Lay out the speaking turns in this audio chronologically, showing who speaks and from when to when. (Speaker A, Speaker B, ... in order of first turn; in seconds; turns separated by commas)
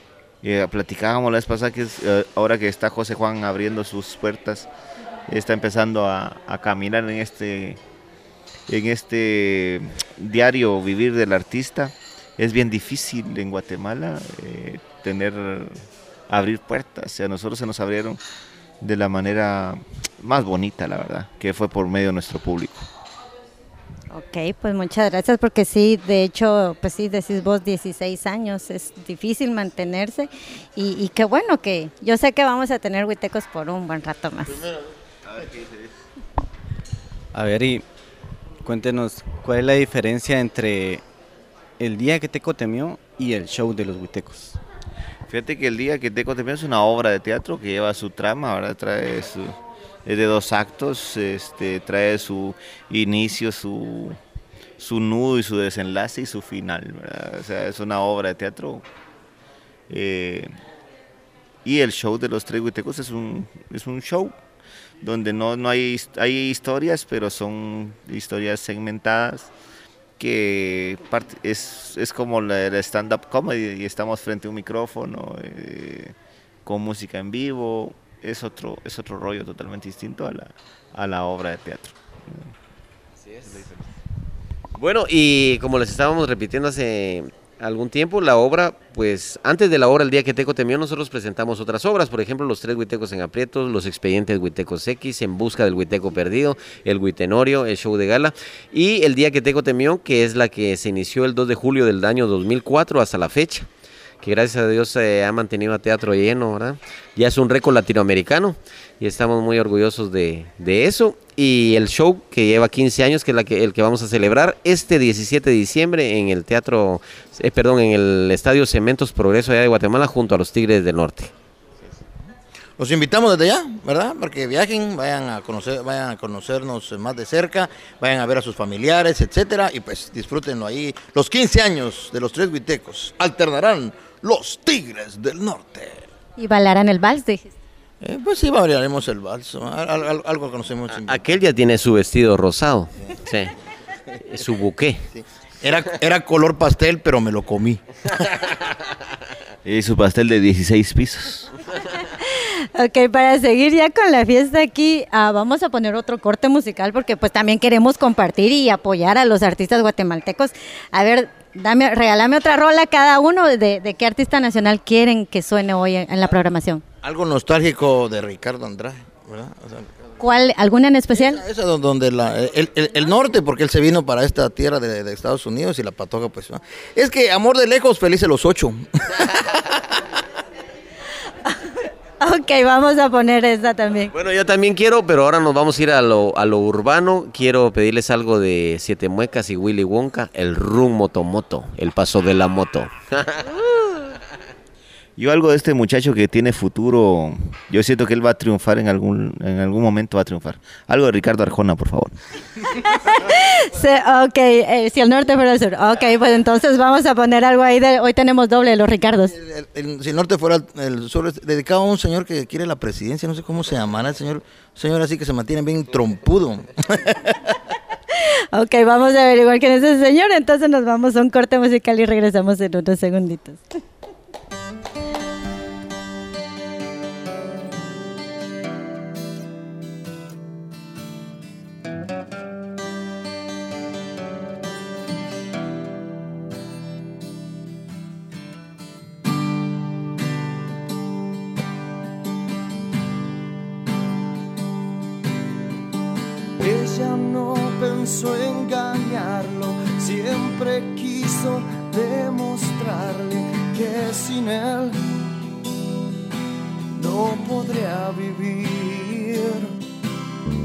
Speaker A: 0.4-4.7, Speaker A: 5.3-7.8, Speaker A: 8.7-15.8, Speaker A: 16.3-18.2, Speaker A: 18.8-22.9, Speaker B: 24.1-34.6, Speaker A: 35.4-35.7, Speaker C: 37.3-37.9, Speaker C: 38.6-41.0, Speaker C: 41.8-44.6, Speaker A: 45.3-54.2, Speaker A: 54.8-58.9, Speaker A: 59.9-60.5, Speaker A: 61.6-64.4, Speaker A: 65.0-69.5, Speaker A: 70.2-82.5, Speaker D: 84.8-103.7, Speaker D: 104.2-121.3, Speaker E: 122.8-136.1, Speaker B: 136.4-137.5, Speaker E: 138.0-141.2, Speaker D: 141.0-143.5, Speaker D: 144.3-145.0, Speaker E: 145.1-147.8, Speaker A: 149.7-151.5, Speaker B: 152.2-166.8, Speaker E: 167.0-169.9, Speaker B: 170.2-171.4, Speaker E: 171.1-179.7, Speaker B: 182.2-184.1, Speaker D: 184.1-193.4, Speaker A: 195.2-202.1, Speaker B: 203.0-209.3, Speaker E: 209.3-217.6, Speaker B: 218.5-223.6, Speaker F: 246.6-255.0, Speaker F: 256.9-259.8